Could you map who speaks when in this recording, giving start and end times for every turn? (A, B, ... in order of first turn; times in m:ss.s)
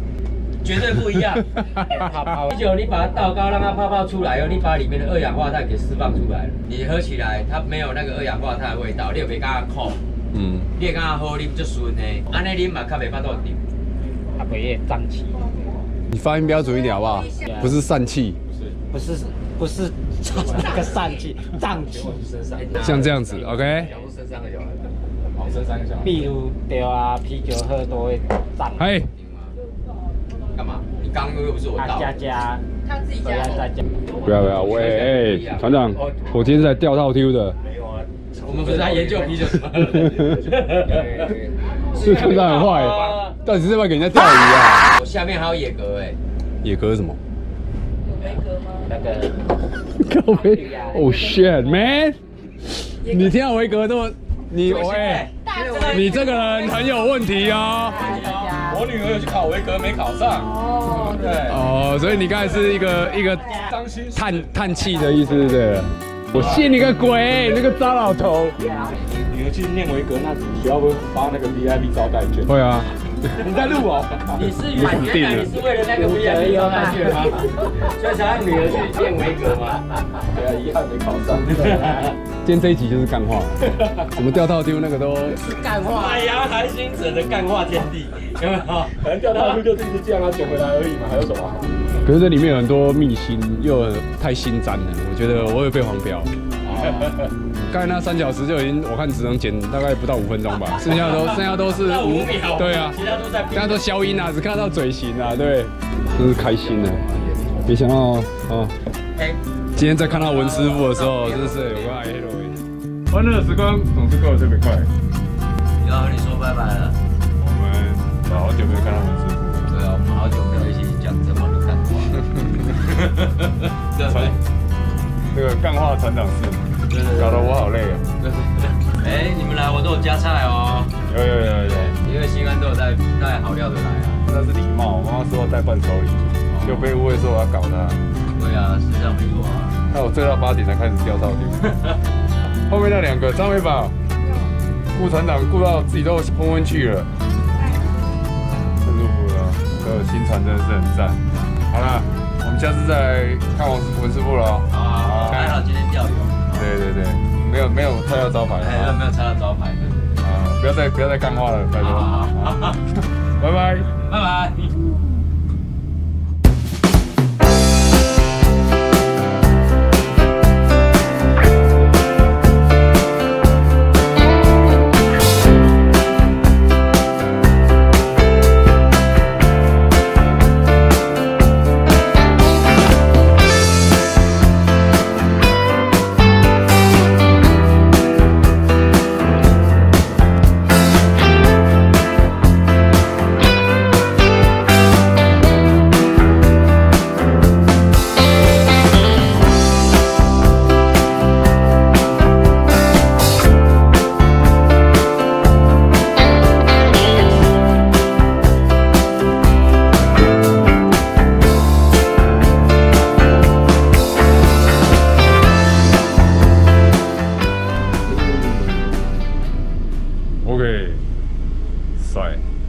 0:00.6-0:01.5 A
0:01.9-0:02.6 B
0:02.5-0:10.0 A
0:10.3-0:10.7 C
0:10.7-0:13.6 A
0:14.4-0:15.5 B
0:16.1-0:18.4 C
0:17.4-0:17.8 B
0:18.9-0:22.2 B
0:21.8-0:23.0 D
0:22.5-0:26.3 A
0:22.8-0:23.9 C
0:23.0-0:23.9 B
0:25.4-0:26.2 D
0:26.0-0:28.9 B
0:28.8-0:29.1 C
0:29.0-0:29.6 A
0:30.5-0:32.2 A
0:31.8-0:32.6 B
0:32.8-0:33.6 E
0:33.2-0:33.8 B
0:34.2-0:37.6 C
0:34.5-0:35.9 A
0:38.4-0:41.4 A
0:38.4-0:39.2 D
0:41.9-0:42.4 A
0:41.9-0:44.9 C
0:42.0-0:43.0 D
0:42.6-0:43.0 E
0:43.0-0:43.2 A
0:44.8-0:46.2 A
0:46.6-0:47.2 C
0:48.2-0:48.9 E
0:48.9-0:49.4 B
0:49.9-0:55.3 C
0:50.2-0:51.1 B
0:51.3-0:51.6 E
0:53.0-0:53.3 E
0:54.6-0:56.1 A
0:55.4-0:58.2 E
0:55.8-0:58.2 C
0:57.8-0:58.8 B
0:58.0-0:58.6 A
0:58.6-1:01.5 D
1:00.4-1:02.0 E
1:01.4-1:03.6 C
1:03.6-1:04.7 D
1:04.1-1:08.6 C
1:08.7-1:09.0 B
1:09.3-1:12.5 D
1:12.4-1:12.9 C
1:13.4-1:14.5 D
1:14.3-1:20.2 A
1:14.7-1:15.5 C
1:15.8-1:17.6 B
1:20.3-1:21.8 D
1:21.4-1:22.1 A
1:22.4-1:25.4 C
1:25.3-1:26.2 B
1:25.8-1:29.6 A
1:29.0-1:31.6 D
1:32.0-1:36.3 C
1:36.6-1:37.2 A
1:37.7-1:43.0 C
1:40.8-1:43.8 A
1:43.5-1:47.0 C
1:47.2-1:47.5 A
1:47.6-1:48.7 C
1:49.8-1:54.9 C
1:50.1-1:52.0 A
1:55.8-1:57.0 A
1:57.4-1:59.7 C
1:59.7-2:04.4 A
2:04.1-2:04.3 C
2:05.3-2:08.0 C
2:06.9-2:07.6 A
2:08.2-2:14.2 A
2:11.1-2:11.9 C
2:14.3-2:18.0 C
2:16.5-2:16.9 A
2:18.3-2:19.8 A
2:19.9-2:21.7 C
2:22.7-2:23.9 C
2:24.9-2:27.1 C
2:28.8-2:31.2 C
2:31.7-2:35.6 C
2:34.7-2:36.7 A
2:36.5-2:39.0 C
2:38.6-2:40.2 A
2:40.2-2:42.8 C
2:41.8-2:42.8 A
2:43.4-2:43.9 C
2:43.9-2:44.8 A
3:38.1-3:38.6 A
3:40.4-3:41.0 C
3:42.0-3:42.4 C